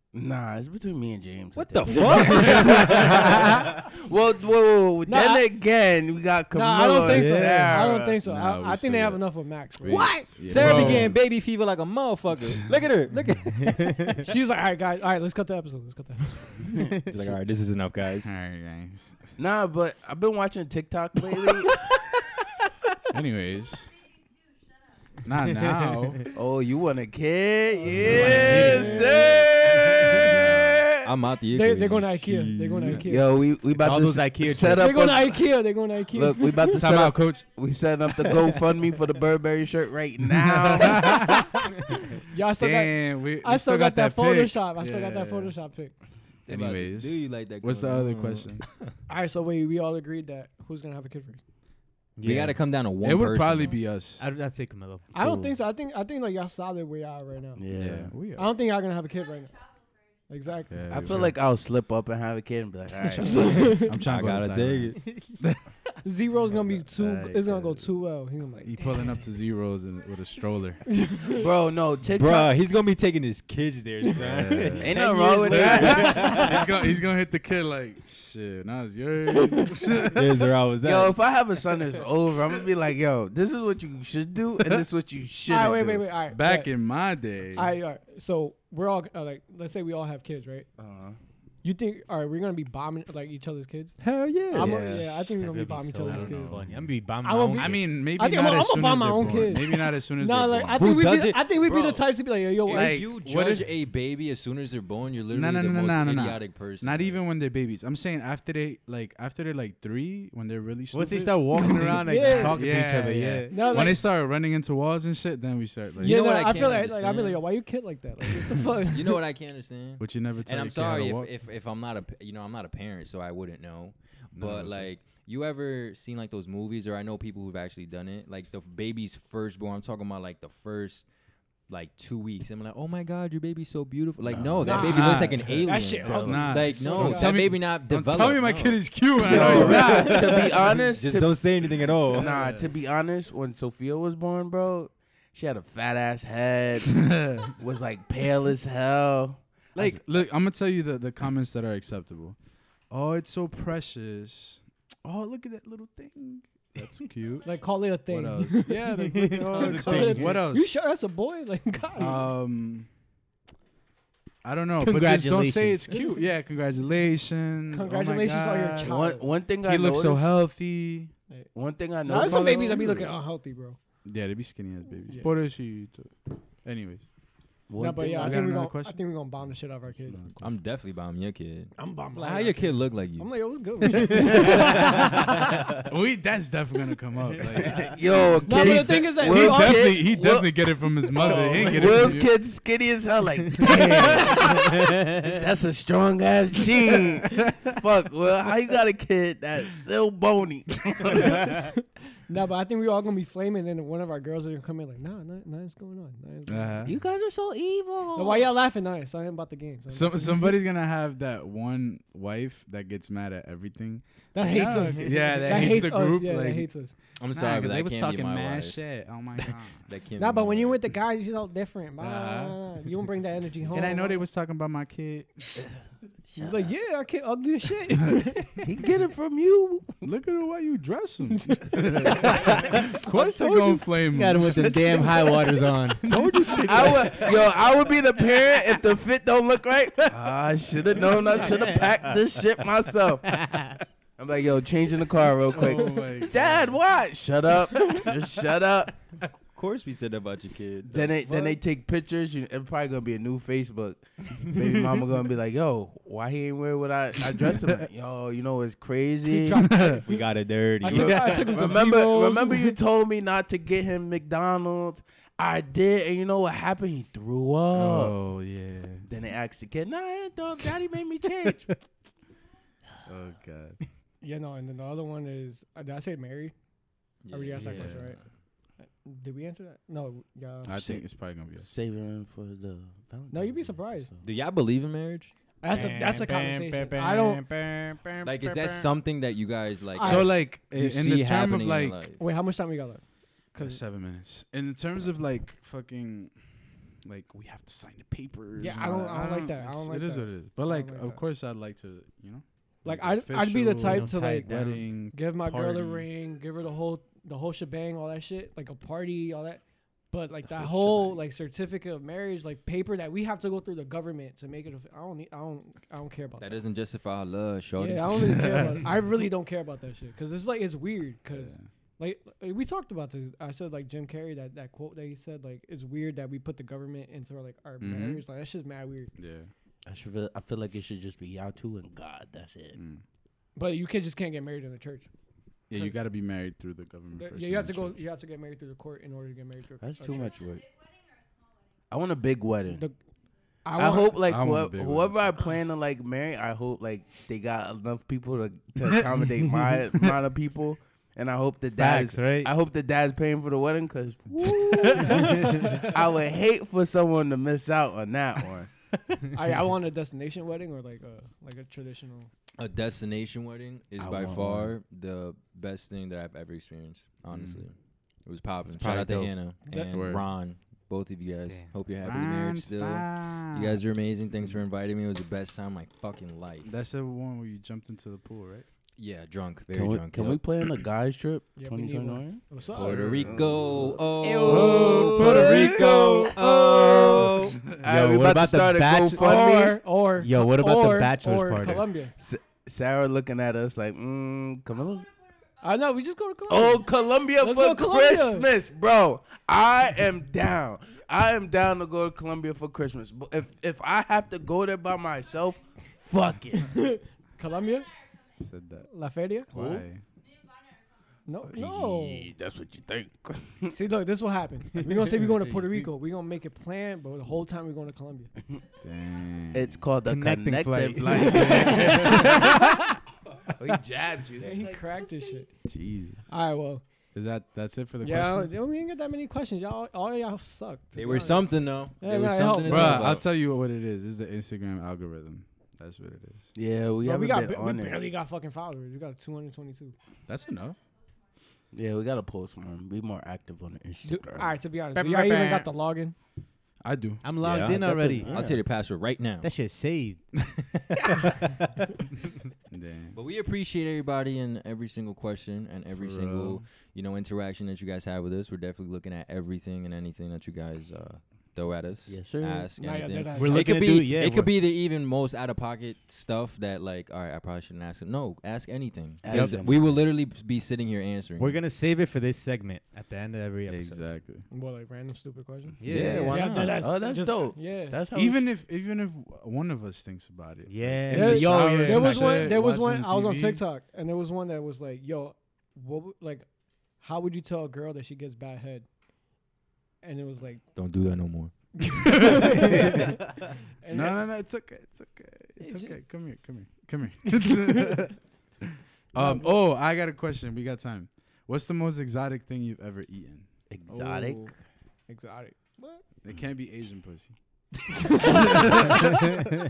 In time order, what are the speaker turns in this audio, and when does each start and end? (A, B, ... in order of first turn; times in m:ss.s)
0:00.1-0:08.2 A
0:01.6-0:03.6 B
0:02.0-0:03.4 C
0:05.0-0:05.5 C
0:06.5-0:11.1 C
0:07.1-0:07.6 D
0:08.2-0:09.2 E
0:09.8-0:11.2 E
0:09.8-0:14.2 B
0:13.6-0:14.1 D
0:14.1-0:16.9 C
0:16.8-0:17.1 D
0:17.0-0:18.3 B
0:18.2-0:19.1 E
0:19.4-0:21.8 A
0:23.1-0:23.9 E
0:25.2-0:26.2 E
0:25.8-0:26.3 D
0:26.3-0:31.1 A
0:28.0-0:29.1 D
0:28.2-0:29.0 C
0:28.6-0:33.0 B
0:30.2-0:30.8 E
0:31.5-0:33.5 C
0:33.0-0:35.4 A
0:33.7-0:34.9 D
0:34.7-0:36.8 C
0:36.1-0:41.4 A
0:36.8-0:37.5 E
0:40.3-0:41.4 E
0:42.2-0:45.9 C
0:42.6-0:45.5 E
0:46.5-0:48.9 B
0:46.5-0:48.6 E
0:49.1-0:51.4 C
0:52.2-0:52.5 D
0:52.2-0:53.8 B
0:53.0-0:54.2 E
0:54.2-0:55.1 D
0:55.1-0:57.6 C
0:57.6-0:58.1 A
0:57.7-0:58.5 E
0:58.4-0:59.5 C
1:00.3-1:00.8 C
1:00.7-1:01.4 E
1:00.9-1:03.7 A
1:03.2-1:04.0 C
1:03.7-1:05.6 E
1:04.0-1:05.0 B
1:06.0-1:08.9 C
1:06.4-1:07.9 E
1:08.6-1:10.9 E
1:10.9-1:11.5 C
1:11.4-1:12.5 A
1:12.1-1:16.7 B
1:14.1-1:20.4 E
1:14.8-1:16.4 A
1:15.1-1:16.2 C
1:20.0-1:21.2 B
1:20.8-1:26.1 A
1:24.6-1:24.8 E
1:25.5-1:26.8 C
1:26.3-1:27.8 E
1:27.5-1:30.7 C
1:30.8-1:31.2 A
1:31.6-1:36.6 C
1:34.0-1:35.1 B
1:34.5-1:35.0 E
1:34.6-1:37.8 D
1:36.0-1:36.8 E
1:37.2-1:43.0 C
1:37.6-1:40.9 E
1:40.7-1:47.2 B
1:42.7-1:43.7 E
1:45.3-1:56.2 E
1:50.9-1:53.9 D
1:51.6-1:52.9 C
1:53.5-1:54.0 C
1:56.0-1:57.5 B
1:56.0-1:59.2 C
1:58.6-2:11.0 B
2:00.0-2:01.3 E
2:04.3-2:04.9 E
2:11.7-2:22.5 B
2:14.3-2:15.2 A
2:14.5-2:20.4 E
2:14.6-2:17.4 C
2:16.0-2:16.4 A
2:19.2-2:21.5 A
2:22.1-2:30.0 A
2:22.1-2:22.7 E
2:26.9-2:27.5 E
2:29.7-2:32.4 E
2:32.9-2:37.5 E
2:37.4-2:42.3 C
2:38.1-2:40.7 E
2:39.4-2:40.4 D
2:42.0-2:42.9 E
2:44.4-2:49.0 E
2:44.8-2:46.0 D
2:45.9-2:46.3 C
2:47.7-2:49.2 C
2:48.8-2:50.4 A
2:49.6-2:51.1 E
2:51.5-2:53.0 A
2:52.0-2:53.8 C
2:52.0-2:53.1 E
2:54.0-2:57.0 E
2:57.7-2:58.4 A
2:57.8-3:00.2 C
2:58.2-2:59.0 E
3:00.1-3:00.5 E
3:00.4-3:04.9 B
3:01.8-3:05.7 C
3:05.8-3:07.9 E
3:07.6-3:21.5 A
3:08.4-3:10.0 C
3:08.5-3:12.3 E
3:11.2-3:12.1 D
3:13.6-3:15.3 D
3:21.3-3:21.7 C
3:22.3-3:26.9 C
3:26.5-3:27.0 E
3:26.8-3:28.5 A
3:28.2-3:30.5 C
3:29.9-3:36.7 E
3:34.3-3:36.9 C
3:37.2-3:38.8 B
3:37.3-3:39.9 E
3:39.4-3:40.8 B
3:40.2-3:44.2 C
3:42.0-3:42.6 E
3:43.6-3:45.5 E
3:46.3-3:46.7 A
3:46.4-3:48.6 C
3:48.6-3:50.0 A
3:50.0-3:54.8 E
3:51.3-3:52.3 C
3:52.2-3:57.6 D
3:54.6-3:55.4 A
3:56.0-4:08.9 A
4:01.4-4:01.9 D
4:03.3-4:03.8 D
4:05.5-4:06.7 E
4:09.5-4:11.2 B
4:10.9-4:19.9 A
4:19.3-4:20.1 C
4:19.6-4:20.0 E
4:20.0-4:21.5 B
4:20.8-4:22.7 C
4:20.9-4:28.2 A
4:21.0-4:21.7 E
4:27.7-4:29.1 E
4:29.0-4:31.7 A
4:33.0-4:33.8 E
4:34.2-4:36.5 C
4:37.2-4:38.2 B
4:37.3-4:38.2 C
4:37.6-4:38.2 E
4:38.8-4:41.0 C
4:40.7-4:41.7 E
4:41.6-4:44.3 A
4:43.3-4:44.1 C
4:44.2-4:45.3 B
4:45.6-4:47.5 C
4:45.7-4:48.9 D
4:48.2-4:52.2 B
4:50.0-4:50.3 C
4:50.0-4:52.0 E
4:52.2-4:53.0 C
4:53.5-4:53.8 C
4:53.5-4:56.3 E
4:57.0-5:06.1 E
4:58.6-5:01.2 C
5:02.8-5:04.6 C
5:03.8-5:04.8 D
5:05.1-5:16.6 C
5:16.4-5:18.8 B
5:17.8-5:29.1 C
5:18.4-5:18.6 E
5:21.4-5:21.6 E
5:27.8-5:28.2 E
5:29.2-5:29.5 E
5:29.8-5:32.8 A
5:32.8-5:33.0 E
5:33.6-5:35.1 C
5:35.7-5:38.0 E
5:37.2-5:40.3 C
5:39.8-5:40.6 A
5:41.9-5:42.8 A
5:43.6-5:44.2 C
5:43.8-5:58.7 A
5:44.2-5:45.5 E
5:51.8-5:52.5 D
5:54.6-5:55.5 D
5:55.1-5:55.9 C
5:59.3-6:02.3 C
6:02.6-6:07.7 B
6:04.0-6:04.7 A
6:07.3-6:07.6 E
6:08.2-6:16.7 B
6:08.7-6:09.3 D
6:09.7-6:10.2 E
6:12.0-6:13.8 E
6:16.6-6:18.6 E
6:19.0-6:20.4 B
6:19.7-6:29.8 A
6:21.6-6:23.3 C
6:22.7-6:23.4 E
6:22.7-6:27.7 B
6:24.2-6:25.4 D
6:24.4-6:25.9 E
6:27.1-6:27.7 E
6:27.8-6:29.3 D
6:29.1-6:32.1 C
6:30.2-6:31.9 D
6:32.2-6:35.0 A
6:35.6-6:38.5 C
6:36.5-6:46.8 A
6:46.6-6:47.9 C
6:48.4-6:48.9 E
6:48.9-6:49.5 C
6:49.5-6:50.0 E
6:49.5-6:49.8 A
6:51.2-6:52.3 C
6:51.5-6:53.7 A
6:53.7-6:58.3 C
6:55.1-6:55.9 D
6:58.8-6:59.8 E
6:59.5-7:02.5 A
7:00.0-7:02.4 D
7:01.2-7:02.6 E
7:01.3-7:02.8 C
7:03.6-7:04.8 A
7:04.4-7:05.5 C
7:05.6-7:06.2 E
7:06.3-7:06.8 C
7:07.1-7:08.6 E
7:08.0-7:13.0 C
7:11.0-7:13.3 B
7:12.6-7:16.5 E
7:16.5-7:18.0 A
7:17.0-7:19.9 C
7:20.3-7:20.8 E
7:21.7-7:24.5 A
7:24.0-7:26.1 C
7:24.9-7:25.7 D
7:26.8-7:27.2 E
7:27.2-7:28.4 D
7:27.4-7:29.5 B
7:27.5-7:28.6 A
7:29.4-7:30.2 D
7:32.7-7:33.1 E
7:33.1-7:51.6 B
7:35.9-7:36.6 E
7:42.1-7:42.7 A
7:42.8-7:43.8 C
7:43.3-7:44.5 D
7:49.2-7:49.8 A
7:49.3-7:49.6 D
7:51.4-7:54.1 D
7:53.6-7:54.4 E
7:54.5-7:58.0 C
7:55.8-7:56.5 D
7:55.8-7:56.8 B
7:55.9-7:58.4 A
7:58.1-8:03.6 E
8:00.7-8:02.6 D
8:01.1-8:06.4 C
8:07.0-8:08.9 C
8:10.0-8:10.6 C
8:10.7-8:12.8 B
8:11.9-8:13.2 C
8:12.3-8:12.6 E
8:13.8-8:14.2 C
8:13.9-8:24.2 E
8:15.6-8:16.0 C
8:19.2-8:19.5 C
8:23.7-8:24.5 A
8:23.9-8:24.5 C
8:25.1-8:26.0 C
8:26.2-8:27.3 E
8:28.0-8:29.2 C
8:28.2-8:29.1 E